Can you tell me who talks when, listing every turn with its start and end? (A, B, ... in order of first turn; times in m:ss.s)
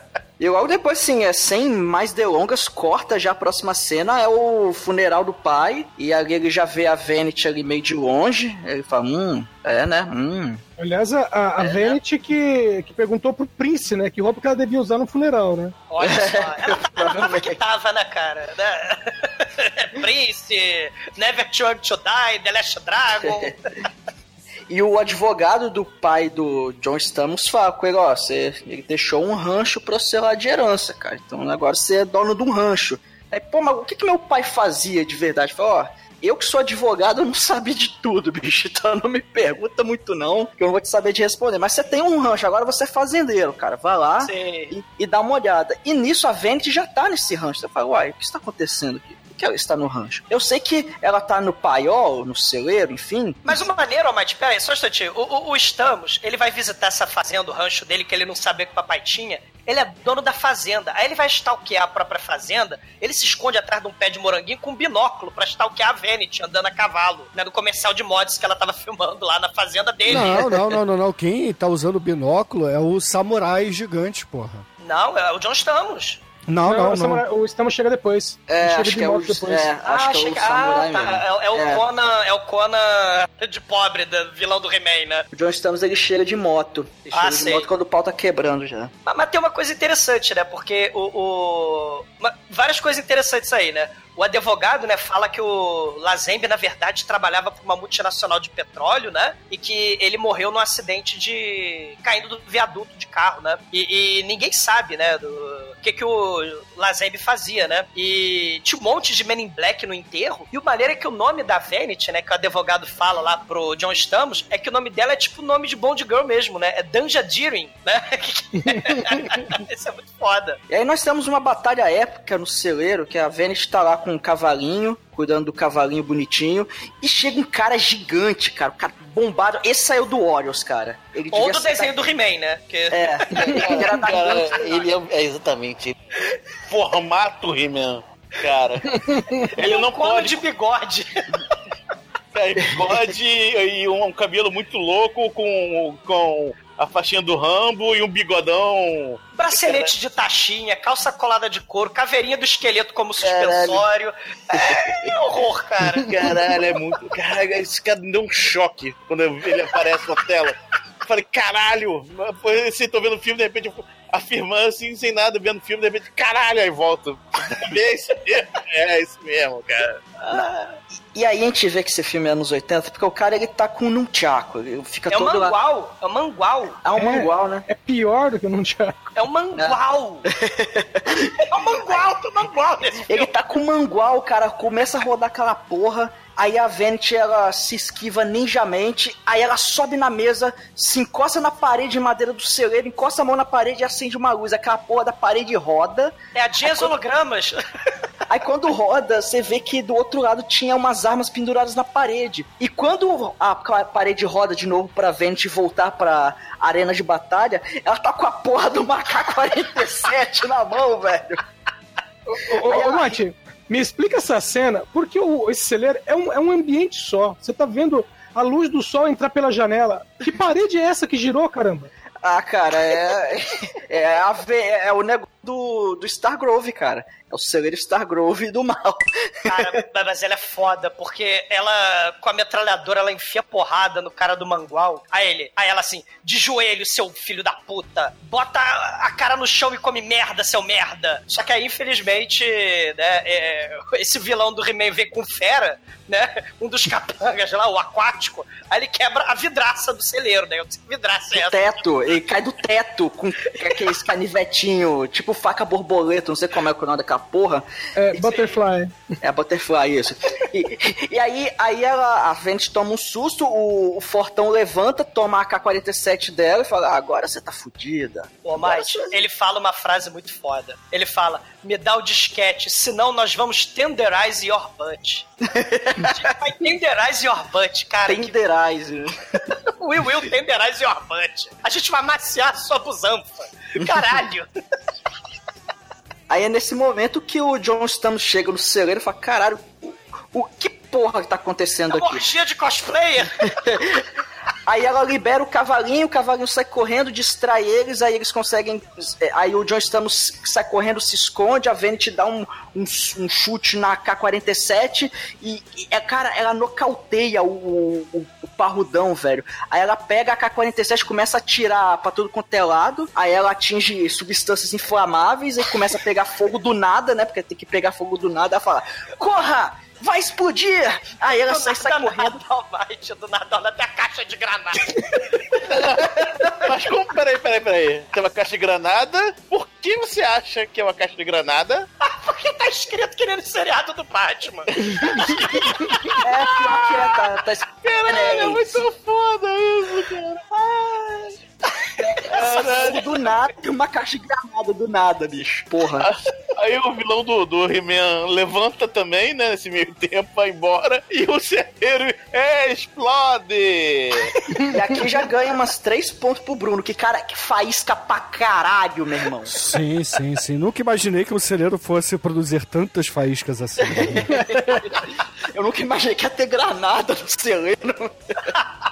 0:00.4-0:10.6 A
0:10.8-0:15.8 B
0:11.6-0:12.0 C
0:15.9-0:23.6 C
0:16.0-0:17.6 A
0:23.2-0:23.5 A
0:24.7-0:53.6 A
0:44.2-0:44.7 C
0:53.4-1:10.5 C
1:10.1-1:14.6 D
1:14.8-1:16.2 C
1:16.5-1:17.2 D
1:16.6-1:19.7 B
1:18.5-1:21.8 A
1:19.8-1:25.2 C
1:25.3-1:28.9 A
1:27.1-1:27.7 C
1:29.0-2:00.6 C
2:00.7-2:12.0 A
2:11.3-2:13.7 C
2:12.9-2:14.9 A
2:13.3-2:16.0 E
2:16.7-2:20.4 E
2:19.1-2:19.4 B
2:19.5-2:21.6 C
2:22.3-2:29.9 E
2:22.6-2:23.0 A
2:29.3-2:36.1 C
2:33.2-2:33.8 E
2:34.5-2:34.8 A
2:36.1-2:50.0 E
2:50.2-2:50.8 C
2:51.1-2:55.5 A
2:55.1-2:56.8 C
2:56.8-2:57.6 A
2:57.0-2:59.1 B
2:59.2-3:00.3 C
3:00.3-3:01.4 A
3:01.4-3:03.3 C
3:03.0-3:16.9 A
3:16.3-3:17.6 C
3:18.3-3:31.4 A
3:32.3-3:41.9 B
3:32.6-3:33.2 A
3:42.2-3:49.6 A
3:49.5-4:11.8 C
4:11.3-4:18.4 A
4:18.0-4:19.1 B
4:19.2-4:29.1 A
4:28.4-4:35.3 C
4:35.4-4:36.2 A
4:36.0-4:38.3 C
4:38.0-4:39.4 A
4:39.8-4:44.5 C
4:46.3-4:52.3 A
4:51.9-4:53.6 C
4:53.5-4:54.1 A
4:54.7-5:22.4 A
5:21.4-5:26.7 C
5:25.6-5:31.9 E
5:32.0-5:36.1 C
5:35.1-5:40.4 E
5:36.2-5:38.8 A
5:40.5-5:46.1 A
5:42.3-5:43.3 C
5:42.4-5:43.0 E
5:46.0-5:54.3 E
5:54.7-5:59.6 A
5:59.5-6:04.3 D
6:03.8-6:08.4 A
6:04.4-6:05.0 C